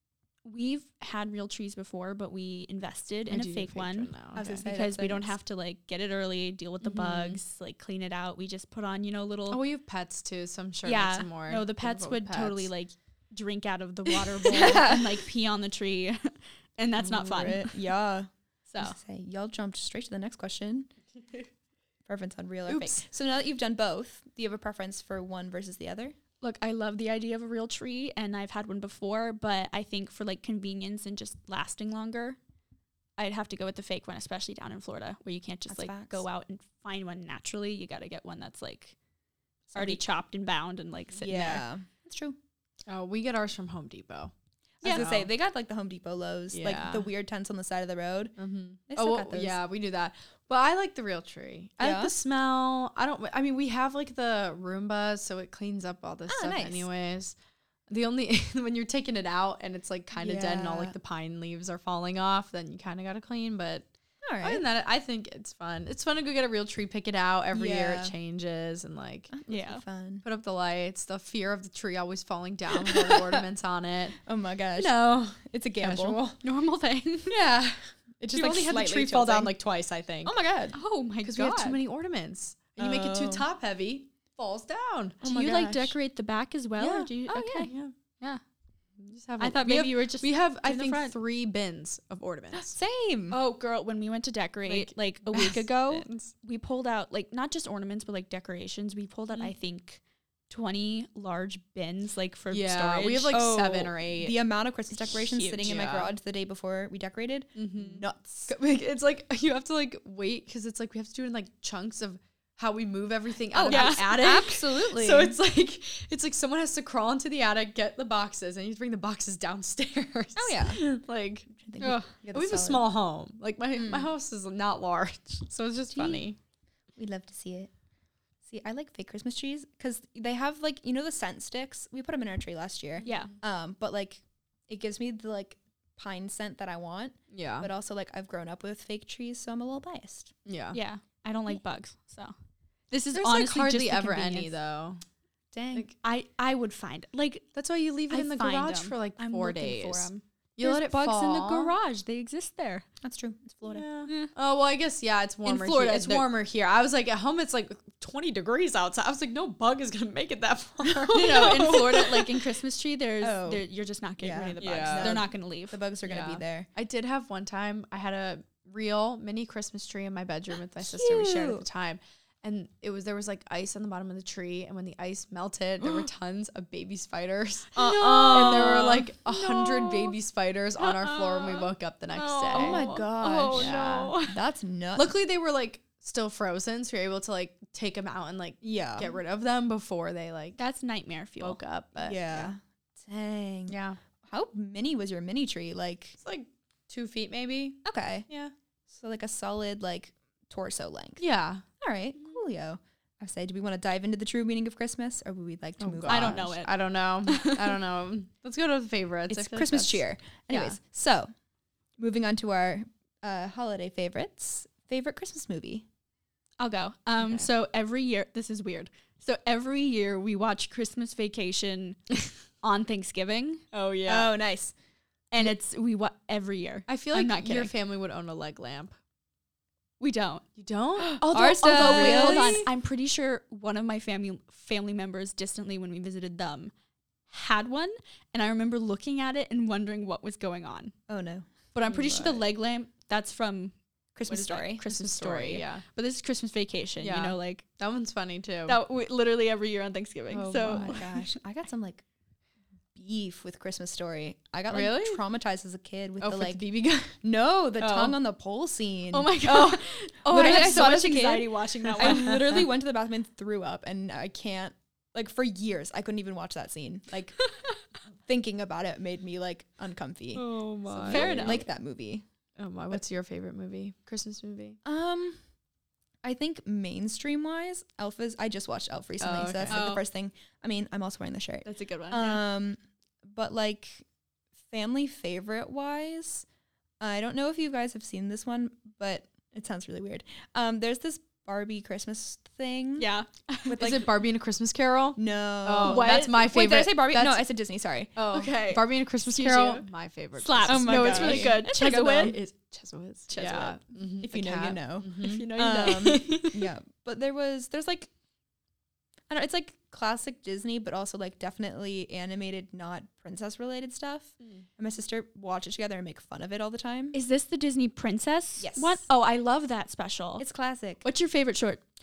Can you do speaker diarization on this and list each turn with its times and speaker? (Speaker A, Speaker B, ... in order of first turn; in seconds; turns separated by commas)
Speaker A: 0.4-9.6, Speaker B: 3.3-4.6, Speaker C: 4.3-5.3, Speaker B: 6.8-7.4, Speaker B: 9.5-12.7, Speaker A: 10.8-17.8, Speaker C: 14.5-15.1, Speaker C: 17.0-20.9, Speaker A: 18.7-19.0, Speaker C: 22.1-26.1, Speaker B: 22.7-23.0, Speaker A: 26.4-32.4, Speaker A: 33.2-39.0, Speaker C: 35.7-36.2, Speaker C: 39.7-40.0, Speaker A: 39.7-41.6, Speaker C: 41.2-42.4, Speaker B: 42.9-44.3, Speaker C: 44.8-48.4, Speaker B: 44.8-45.3, Speaker B: 46.5-47.1, Speaker B: 48.4-57.3, Speaker C: 48.9-49.6, Speaker C: 51.8-52.1, Speaker C: 56.3-56.9, Speaker B: 57.9-63.9, Speaker C: 60.1-60.9, Speaker C: 64.2-64.6, Speaker B: 64.4-69.4, Speaker C: 67.5-68.1, Speaker C: 69.3-70.2, Speaker A: 69.5-69.8, Speaker B: 70.2-74.2, Speaker C: 72.7-73.4, Speaker C: 74.2-76.2, Speaker B: 74.8-76.4, Speaker A: 76.4-77.4, Speaker B: 77.3-80.6, Speaker C: 78.2-79.5, Speaker C: 80.2-80.8, Speaker A: 80.7-81.8, Speaker B: 81.2-85.2, Speaker C: 82.8-83.4, Speaker C: 85.2-85.9, Speaker A: 85.2-88.4, Speaker B: 86.8-87.9, Speaker C: 87.3-87.7, Speaker B: 89.0-92.8, Speaker A: 89.4-91.2, Speaker C: 92.5-93.4, Speaker A: 93.3-103.4, Speaker B: 94.7-96.3, Speaker B: 102.5-104.4, Speaker C: 103.3-108.5, Speaker A: 105.2-105.7, Speaker B: 105.6-106.1, Speaker B: 107.5-126.4, Speaker C: 113.5-115.4, Speaker A: 113.7-114.4, Speaker C: 120.3-120.8, Speaker C: 121.5-122.8, Speaker A: 121.8-122.1, Speaker C: 123.8-124.1, Speaker C: 125.9-126.2, Speaker C: 127.0-127.7, Speaker C: 128.4-140.3, Speaker B: 133.0-133.3, Speaker A: 133.0-133.3, Speaker B: 137.3-137.7, Speaker B: 140.4-140.8, Speaker A: 140.7-142.3, Speaker A: 142.9-144.5, Speaker B: 143.1-145.0, Speaker A: 145.5-147.4, Speaker B: 147.5-151.7, Speaker A: 148.1-152.8, Speaker C: 153.0-153.8, Speaker B: 153.6-162.2, Speaker A: 154.1-154.3, Speaker A: 155.4-156.3, Speaker C: 160.9-161.8, Speaker A: 161.1-165.8, Speaker C: 163.2-163.6, Speaker C: 164.2-166.7, Speaker B: 164.6-165.2, Speaker B: 166.0-182.9, Speaker C: 170.8-171.6, Speaker A: 177.7-180.1, Speaker A: 180.8-184.4, Speaker C: 182.5-185.2, Speaker B: 183.5-184.1, Speaker B: 184.9-190.6, Speaker C: 188.6-189.1, Speaker A: 190.6-191.6, Speaker B: 191.4-192.5, Speaker C: 192.0-193.7, Speaker B: 193.7-194.0, Speaker C: 194.2-196.2, Speaker B: 196.2-198.5, Speaker C: 197.8-198.3, Speaker C: 198.9-201.2, Speaker B: 201.2-201.6, Speaker C: 201.8-206.6, Speaker B: 205.8-210.8, Speaker A: 206.1-206.7, Speaker A: 207.3-207.7, Speaker C: 209.3-211.3, Speaker C: 212.0-215.8, Speaker A: 216.6-223.6, Speaker B: 223.7-224.3, Speaker C: 224.1-224.7, Speaker A: 225.3-227.7, Speaker B: 226.9-228.9, Speaker A: 230.0-230.4, Speaker B: 230.6-232.7, Speaker A: 231.0-236.7, Speaker C: 231.3-232.7, Speaker A: 237.3-240.9, Speaker C: 241.1-241.5, Speaker A: 241.7-243.7, Speaker B: 241.8-242.4, Speaker C: 244.1-244.8, Speaker A: 244.3-247.6, Speaker B: 244.9-245.8, Speaker B: 247.0-248.8, Speaker A: 248.7-251.2, Speaker B: 250.3-251.0, Speaker C: 250.7-252.0, Speaker C: 252.9-256.6, Speaker B: 254.7-255.2, Speaker B: 256.2-257.2, Speaker C: 257.2-267.4, Speaker B: 257.8-258.2, Speaker A: 259.1-262.5, Speaker B: 259.5-262.7, Speaker C: 268.2-272.2, Speaker B: 270.3-271.6, Speaker A: 271.1-271.6, Speaker B: 272.6-274.8, Speaker C: 274.8-275.4, Speaker C: 276.2-284.1, Speaker B: 279.2-279.9, Speaker A: 279.7-280.0, Speaker A: 281.6-282.4, Speaker C: 284.7-286.4, Speaker C: 287.0-293.1, Speaker A: 293.0-293.8, Speaker C: 293.7-294.1, Speaker B: 293.7-297.5, Speaker C: 295.2-298.1, Speaker A: 295.8-296.4, Speaker B: 298.1-306.6, Speaker A: 298.3-299.8, Speaker A: 300.4-302.4, Speaker C: 300.7-302.4, Speaker A: 303.3-303.8, Speaker C: 304.2-308.1, Speaker A: 305.2-306.5, Speaker C: 309.3-317.1, Speaker A: 317.1-320.4, Speaker C: 318.6-319.0, Speaker C: 320.4-321.0, Speaker A: 321.0-321.8